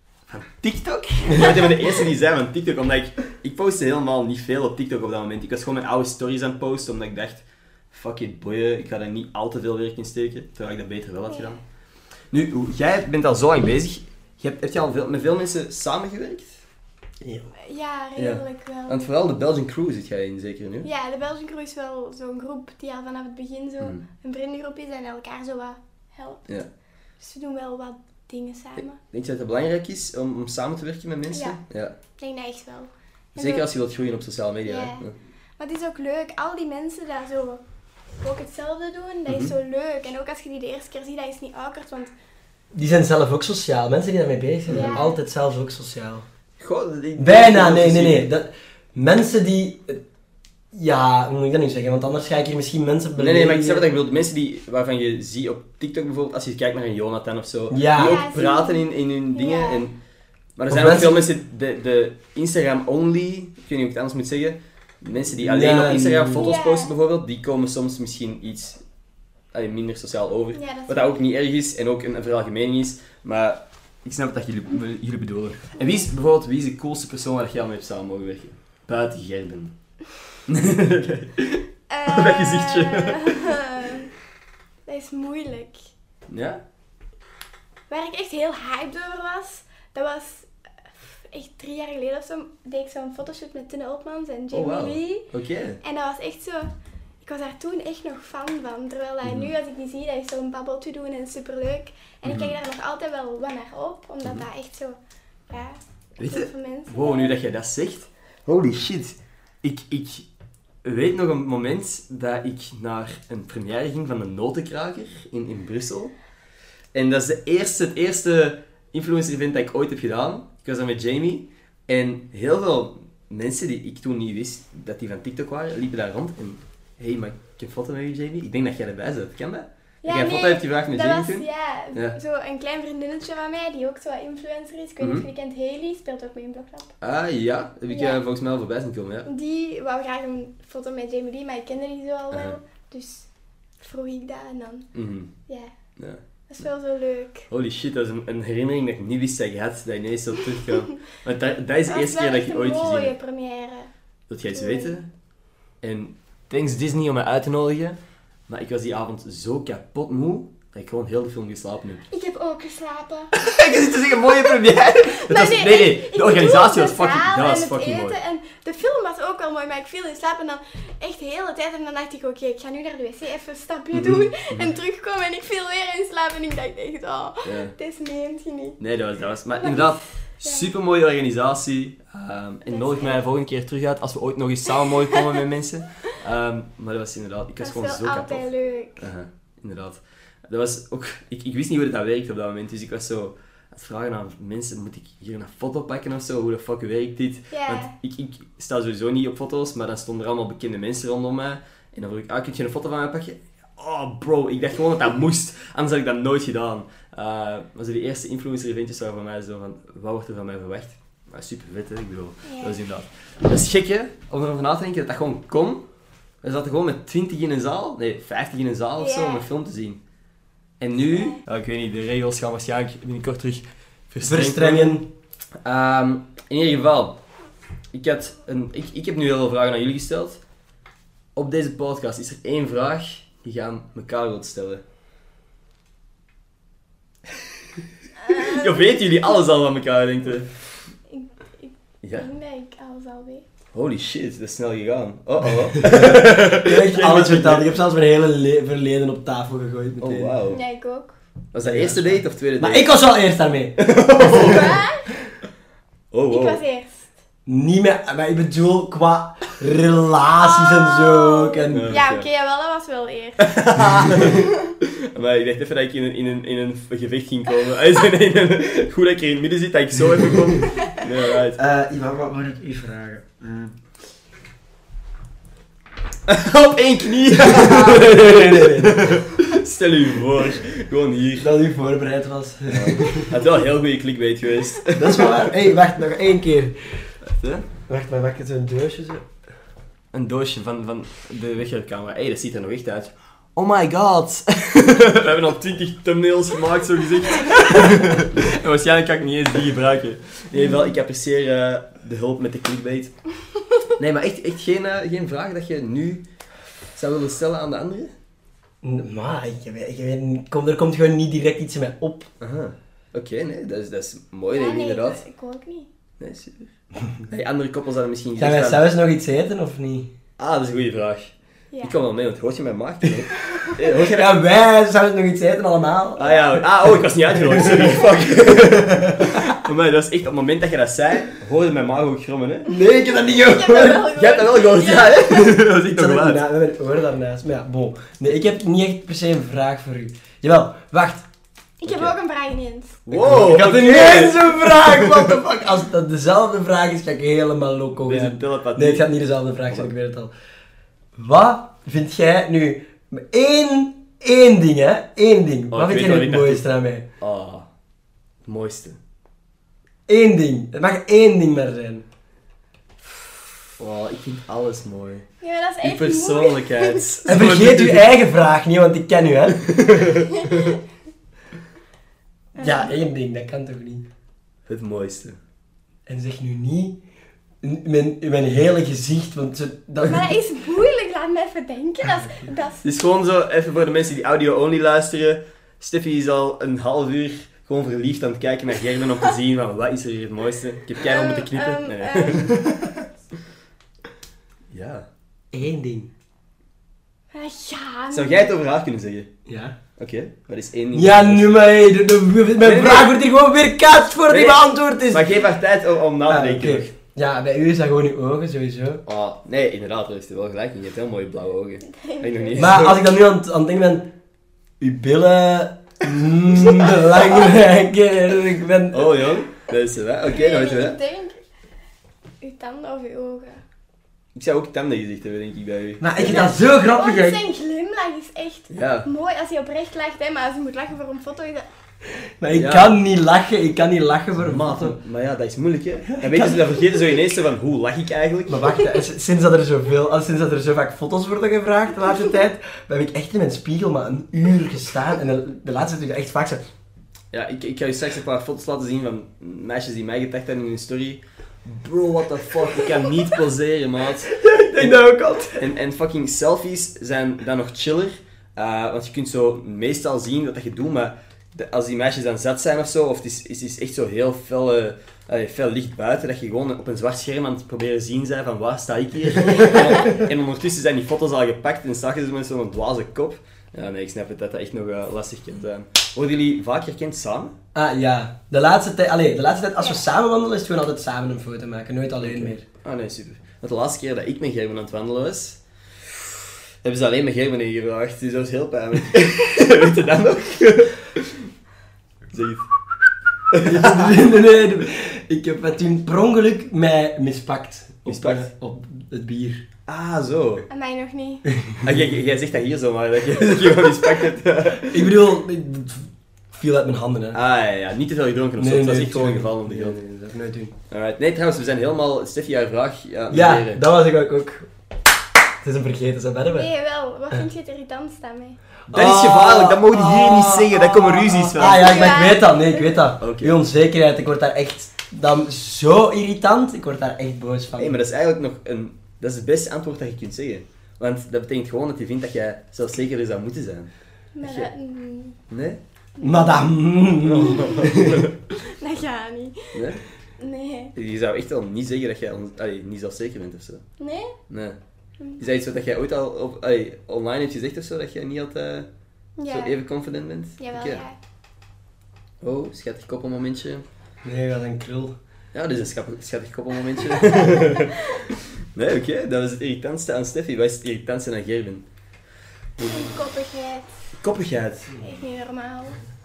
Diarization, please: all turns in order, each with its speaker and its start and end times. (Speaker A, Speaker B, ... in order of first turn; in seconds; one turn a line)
Speaker A: 0.3-11.6
Speaker B: 11.3-11.6
Speaker A: 12.3-16.6
Speaker C: 17.2-17.5
Speaker B: 17.6-19.0
Speaker A: 18.2-20.9
Speaker B: 20.8-26.5
Speaker B: 27.2-28.9
Speaker A: 28.8-31.9
Speaker B: 31.3-31.6
Speaker B: 32.2-33.7
Speaker A: 33.4-35.1
Speaker B: 34.6-35.0
Speaker B: 35.6-37.6
Speaker B: 38.2-42.1
Speaker A: 39.2-39.5
Speaker C: 42.7-46.2
Speaker A: 44.7-45.0
Speaker B: 44.7-45.2
Speaker A: 46.6-48.3
Speaker C: 47.2-50.0
Speaker C: 50.7-53.8
Speaker A: 53.2-60.0
Speaker C: 57.7-58.2
Speaker B: 58.0-59.8
Speaker A: 60.5-68.8
Speaker C: 60.7-61.3
Speaker C: 65.4-66.5
Speaker B: 66.3-66.9
Speaker A: 69.5-83.4
Speaker B: 70.5-71.2
Speaker B: 81.9-84.1
Speaker B: 84.9-85.8
Speaker A: 86.3-86.6
Speaker B: 87.9-90.5
Speaker B: 91.0-95.3
Speaker A: 94.5-95.8
Speaker B: 95.8-105.0
Speaker A: 99.2-99.5
Speaker A: 102.2-102.5
Speaker B: 105.5-107.4
Speaker A: 106.2-110.3
Speaker A: 110.8-116.2
Speaker A: 116.9-132.2
Speaker B: 130.0-136.9
Speaker A: 135.0-135.2
Speaker A: 137.0-139.3
Speaker B: 137.9-138.2
Speaker B: 139.2-144.9
Speaker A: 142.3-142.6
Speaker A: 144.9-145.3
Speaker B: 145.5-145.7
Speaker A: 146.0-146.6
Speaker B: 146.5-147.5
Speaker A: 147.5-153.1
Speaker B: 151.9-153.9
Speaker A: 154.3-155.1
Speaker B: 154.5-155.0
Speaker A: 155.8-162.0
Speaker B: 162.1-163.4
Speaker A: 163.3-168.2
Speaker B: 164.3-178.8
Speaker A: 173.9-174.7
Speaker A: 177.4-177.7
Speaker A: 178.8-215.9
Speaker B: 179.6-180.7
Speaker B: 182.7-183.2
Speaker B: 187.6-189.1
Speaker B: 197.5-197.9
Speaker B: 212.4-212.8
Speaker A: 216.4-220.0
Speaker B: 219.0-219.4
Speaker A: 220.8-225.0
Speaker C: 224.2-225.1
Speaker A: 225.6-227.2
Speaker A: 227.9-230.4
Speaker A: 231.3-234.8
Speaker B: 238.2-239.2
Speaker A: 238.3-240.8
Speaker B: 241.1-243.4
Speaker A: 242.0-242.3
Speaker A: 243.7-247.7
Speaker C: 245.8-250.4
Speaker A: 250.0-250.6
Speaker B: 250.5-251.2
Speaker A: 251.5-252.9
Speaker C: 251.6-254.6
Speaker A: 253.8-254.7
Speaker B: 254.4-255.1
Speaker A: 256.1-256.6
Speaker B: 256.3-257.1
Speaker C: 257.4-261.9
Speaker B: 260.4-264.4
Speaker A: 261.7-262.3
Speaker A: 263.4-264.5
Speaker A: 265.1-271.6
Speaker C: 271.6-273.8
Speaker A: 276.3-281.5
Speaker C: 277.4-279.2
Speaker C: 281.4-283.3
Speaker A: 282.7-285.5
Speaker C: 284.9-287.1
Speaker A: 287.2-287.6
Speaker C: 287.9-289.3
Speaker A: 290.1-303.2
Speaker A: 304.0-306.2
Speaker A: 306.9-308.1
Speaker C: 308.8-312.3
Speaker A: 312.4-315.2
Speaker B: 314.5-315.9
Speaker A: 316.2-318.8
Speaker C: 318.4-320.1
Speaker A: 320.4-324.3
Speaker B: 321.7-322.0
Speaker B: 323.3-323.8
Speaker C: 324.1-326.3
Speaker A: 326.2-332.7
Speaker B: 326.2-326.5
Speaker C: 327.4-329.4
Speaker C: 332.6-334.1
Speaker B: 333.4-335.6
Speaker A: 334.1-336.4
Speaker C: 335.9-341.3
Speaker B: 341.8-343.0
Speaker A: 343.1-345.4
Speaker C: 343.1-350.3
Speaker A: 348.0-349.1
Speaker C: 351.1-357.0
Speaker A: 355.7-356.6
Speaker A: 357.2-357.7
Speaker A: 358.4-359.0
Speaker C: 360.1-362.1
Speaker A: 363.8-365.3
Speaker B: 365.4-367.1
Speaker A: 365.8-368.1
Speaker C: 367.3-369.8
Speaker A: 369.8-370.2
Speaker B: 370.4-370.7
Speaker C: 372.6-374.0
Speaker B: 372.6-372.9
Speaker A: 374.7-375.4
Speaker C: 376.1-377.0
Speaker C: 377.6-380.3
Speaker B: 380.0-382.8
Speaker A: 382.8-393.0
Speaker B: 391.0-392.5
Speaker A: 394.7-395.1
Speaker C: 395.5-396.1
Speaker B: 397.3-398.5
Speaker A: 398.1-399.3
Speaker C: 399.4-399.8
Speaker A: 400.0-401.6
Speaker C: 400.9-405.3
Speaker A: 402.6-403.1
Speaker A: 404.3-406.9
Speaker C: 406.3-409.0
Speaker A: 409.0-413.0
Speaker B: 412.0-412.6
Speaker C: 412.6-414.1
Speaker C: 414.8-419.2
Speaker A: 418.9-421.0
Speaker B: 420.2-421.4
Speaker B: 422.4-423.6
Speaker A: 424.3-426.5
Speaker C: 426.0-427.4
Speaker B: 426.2-431.7
Speaker A: 428.7-429.1
Speaker C: 432.4-435.0
Speaker A: 432.5-432.9
Speaker A: 434.4-438.6
Speaker C: 436.1-436.9
Speaker C: 438.5-446.6
Speaker A: 447.3-454.9
Speaker C: 454.4-455.6
Speaker A: 455.5-477.5
Speaker C: 477.7-482.6
Speaker A: 482.2-491.3
Speaker A: 492.3-492.7
Speaker A: 493.5-494.1
Speaker C: 493.6-499.6
Speaker A: 498.1-498.5
Speaker A: 499.9-500.6
Speaker B: 500.7-501.5
Speaker A: 501.8-505.1
Speaker C: 504.9-507.4
Speaker A: 507.3-510.0
Speaker C: 508.6-510.7
Speaker A: 510.9-513.8
Speaker C: 513.3-514.7
Speaker C: 515.6-516.7
Speaker B: 516.5-518.6
Speaker C: 518.9-528.0
Speaker A: 518.9-521.9
Speaker B: 521.6-523.0
Speaker A: 523.2-523.5
Speaker A: 527.8-534.7
Speaker B: 534.3-535.4
Speaker A: 535.5-535.8
Speaker B: 536.2-536.7
Speaker C: 536.2-538.2
Speaker A: 537.2-538.3
Speaker B: 538.6-539.8
Speaker A: 539.7-540.0
Speaker B: 540.4-540.9
Speaker A: 540.9-543.8
Speaker B: 544.0-544.3
Speaker A: 544.5-544.8
Speaker B: 545.2-545.4
Speaker A: 545.4-548.9
Speaker B: 549.4-549.8
Speaker A: 549.5-551.0
Speaker B: 550.6-551.1
Speaker A: 552.4-553.8
Speaker C: 554.2-555.1
Speaker A: 555.5-561.9
Speaker B: 557.2-557.7
Speaker A: 562.8-563.1
Speaker B: 562.8-564.1
Speaker A: 564.2-565.0
Speaker B: 565.0-566.0